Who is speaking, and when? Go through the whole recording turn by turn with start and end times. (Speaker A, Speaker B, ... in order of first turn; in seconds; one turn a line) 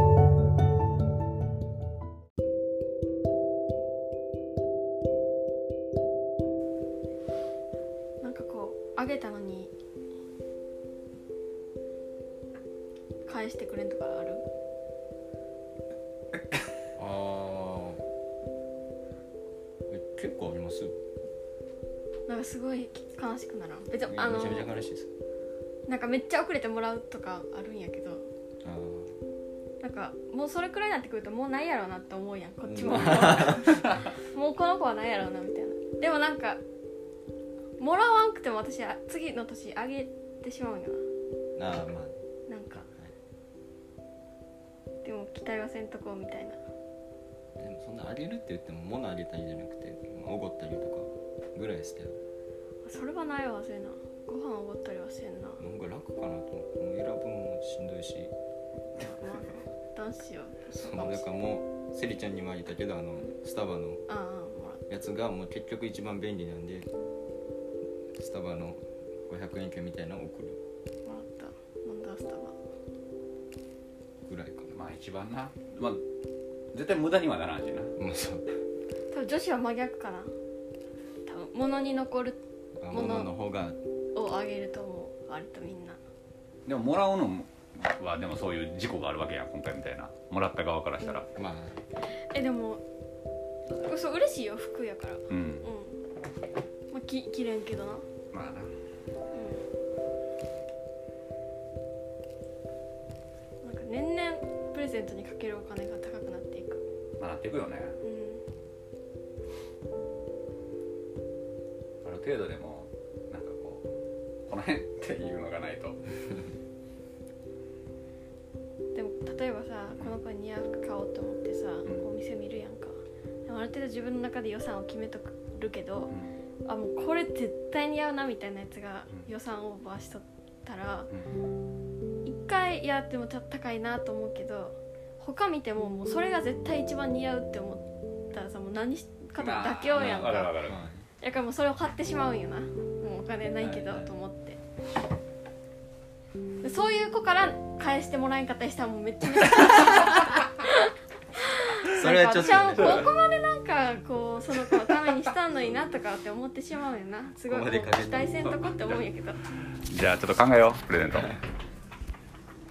Speaker A: 8.2-9.7
Speaker A: 13.2-14.4
Speaker B: 17.0-18.0
Speaker B: 19.9-20.9
Speaker A: 22.3-24.7
Speaker B: 24.1-25.1
Speaker A: 25.9-28.3
Speaker B: 28.6-29.2
Speaker A: 29.8-36.6
Speaker B: 32.6-33.8
Speaker A: 37.8-41.0
Speaker B: 41.6-42.1
Speaker A: 42.5-42.9
Speaker A: 45.0-46.6
Speaker B: 47.6-52.2
Speaker A: 52.8-55.6
Speaker B: 55.6-58.3
Speaker A: 59.0-61.3
Speaker B: 60.8-64.0
Speaker A: 64.1-64.8
Speaker B: 64.9-66.9
Speaker B: 68.2-70.6
Speaker A: 71.0-72.5
Speaker B: 74.2-74.7
Speaker C: 74.7-76.0
Speaker C: 76.7-77.9
Speaker B: 78.0-78.5
Speaker A: 79.1-80.3
Speaker A: 81.2-83.3
Speaker B: 82.8-83.8
Speaker A: 84.1-86.0
Speaker C: 86.7-91.3
Speaker B: 91.3-91.8
Speaker A: 92.3-92.8
Speaker A: 93.7-96.0
Speaker C: 95.3-95.7
Speaker A: 96.9-98.0
Speaker C: 98.3-98.7
Speaker A: 99.3-99.6
Speaker A: 103.6-106.8
Speaker C: 107.2-108.0
Speaker A: 108.0-108.4
Speaker C: 112.0-113.9
Speaker C: 114.5-116.0
Speaker A: 118.9-126.1
Speaker C: 126.1-126.3
Speaker A: 126.7-131.1
Speaker A: 132.2-140.6
Speaker C: 139.3-140.8
Speaker B: 140.0-141.0
Speaker A: 141.2-144.6
Speaker B: 143.6-144.1
Speaker A: 146.6-159.4
Speaker B: 151.9-153.1
Speaker C: 152.8-153.1
Speaker B: 157.5-158.4
Speaker C: 158.5-159.0
Speaker C: 159.8-161.4